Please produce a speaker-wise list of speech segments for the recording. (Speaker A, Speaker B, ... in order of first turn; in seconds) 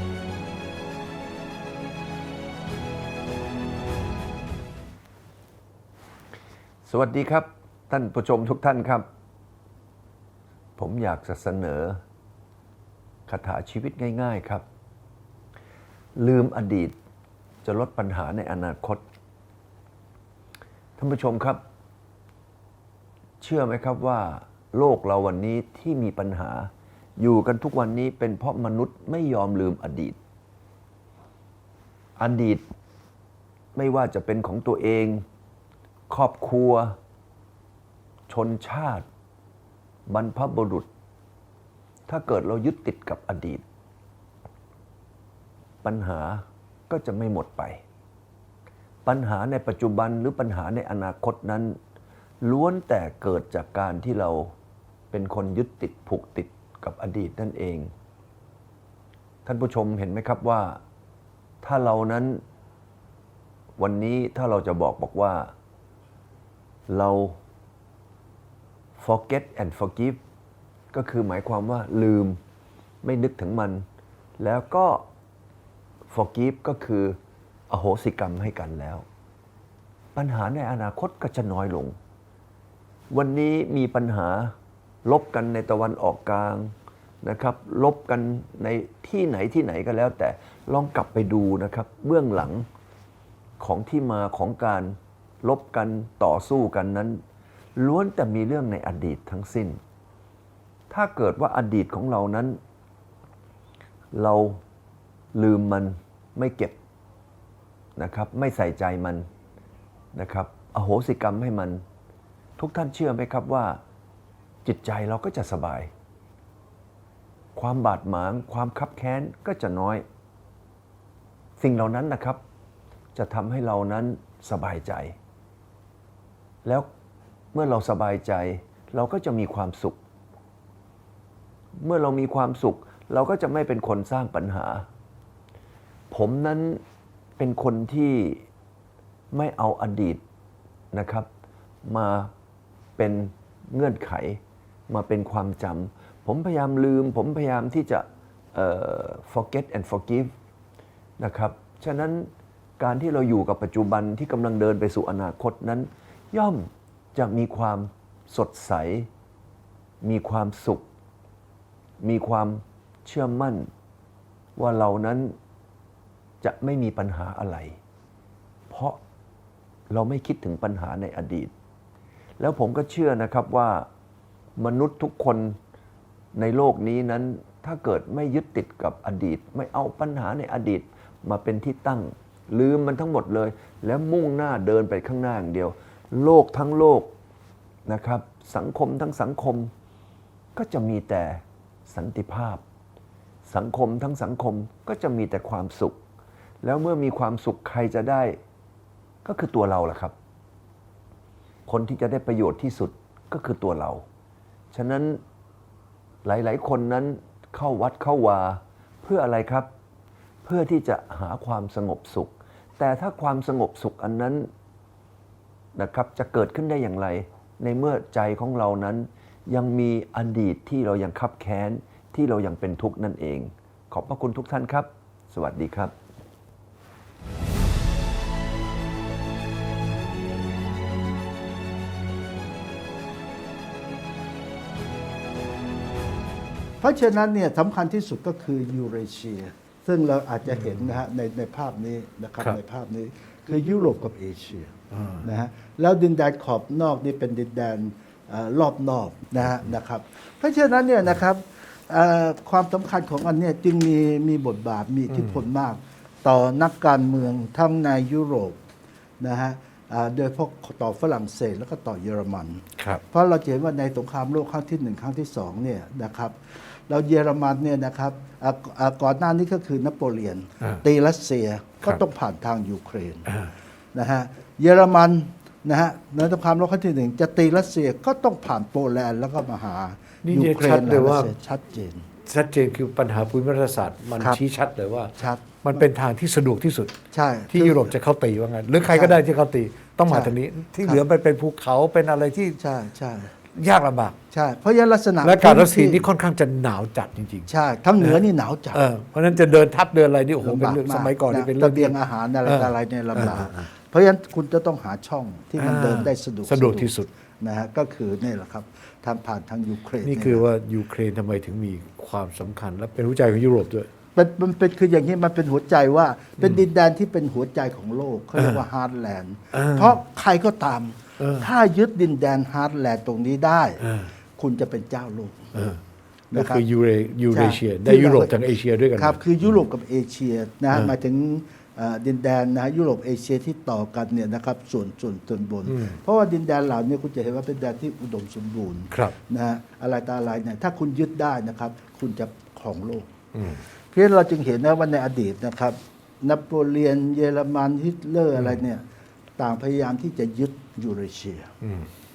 Speaker A: 6.8-9.1, 10.8-12.0, 13.3-14.6, 16.1-16.9, 17.6-19.0, 21.0-21.6, 23.4-30.2, 32.2-32.6, 33.7-35.2, 36.1-37.0, 38.3-39.0, 40.1-40.9, 42.1-43.6, 45.8-47.8, 49.0-51.8, 52.4-54.5, 55.1-57.9, 59.5-60.8, 61.6-62.4, 63.8-65.5, 66.9-67.4, 69.0-70.2, 70.9-72.4, 73.0-73.8, 74.4-75.0, 76.1-77.2, 77.7-79.0, 80.1-82.0, 83.1-84.5, 85.0-92.7, 93.6-97.2, 97.8-99.8, 100.9-102.6, 104.1-104.6, 105.3-106.8, 108.0-109.2, 110.1-111.8, 112.6-113.8, 114.6-115.9, 117.5-120.0, 121.6-122.4, 123.1-125.1, 127.5-130.0, 131.8-134.8, 136.1-136.8, 137.4-138.4, 139.3-140.2, 140.9-141.3, 141.8-142.3, 143.0-150.3, 151.2-159.1, 160.0-160.8, 162.0-163.7, 164.6-165.3, 166.4-167.8, 168.7-169.0, 169.9-171.5, 172.4-173.9, 174.6-175.6, 176.3-187.1, 187.9-189.7, 190.6-192.6, 193.4-196.0, 196.6-198.4, 199.2-200.1, 201.7-204.0, 204.7-205.2, 206.2-209.7, 210.4-214.5, 215.8-225.9
Speaker B: 236.8-258.6, 259.2-273.3, 273.9-282.1, 285.2-285.8, 287.1-287.9, 288.9-289.1, 290.1-291.0, 292.6-293.3, 294.3-296.1, 297.5-298.8, 300.4-306.9, 307.4-310.4, 314.1-323.8, 324.4-325.5, 326.3-326.6, 327.3-328.3, 329.0-343.1, 343.9-348.8, 349.4-351.5
Speaker C: 240.6-240.8, 244.9-245.2, 255.1-255.4, 273.3-273.5, 280.2-281.3, 282.2-287.0, 287.5-292.6, 293.5-294.2, 295.2-298.2, 298.7-303.7, 305.6-307.1, 310.0-313.9, 318.4-318.6, 319.5-320.0, 321.2-321.5, 323.8-324.1, 325.5-325.8, 326.3-329.5, 335.6-336.0, 338.9-339.1, 343.3-343.6, 348.3-348.6, 351.6-351.9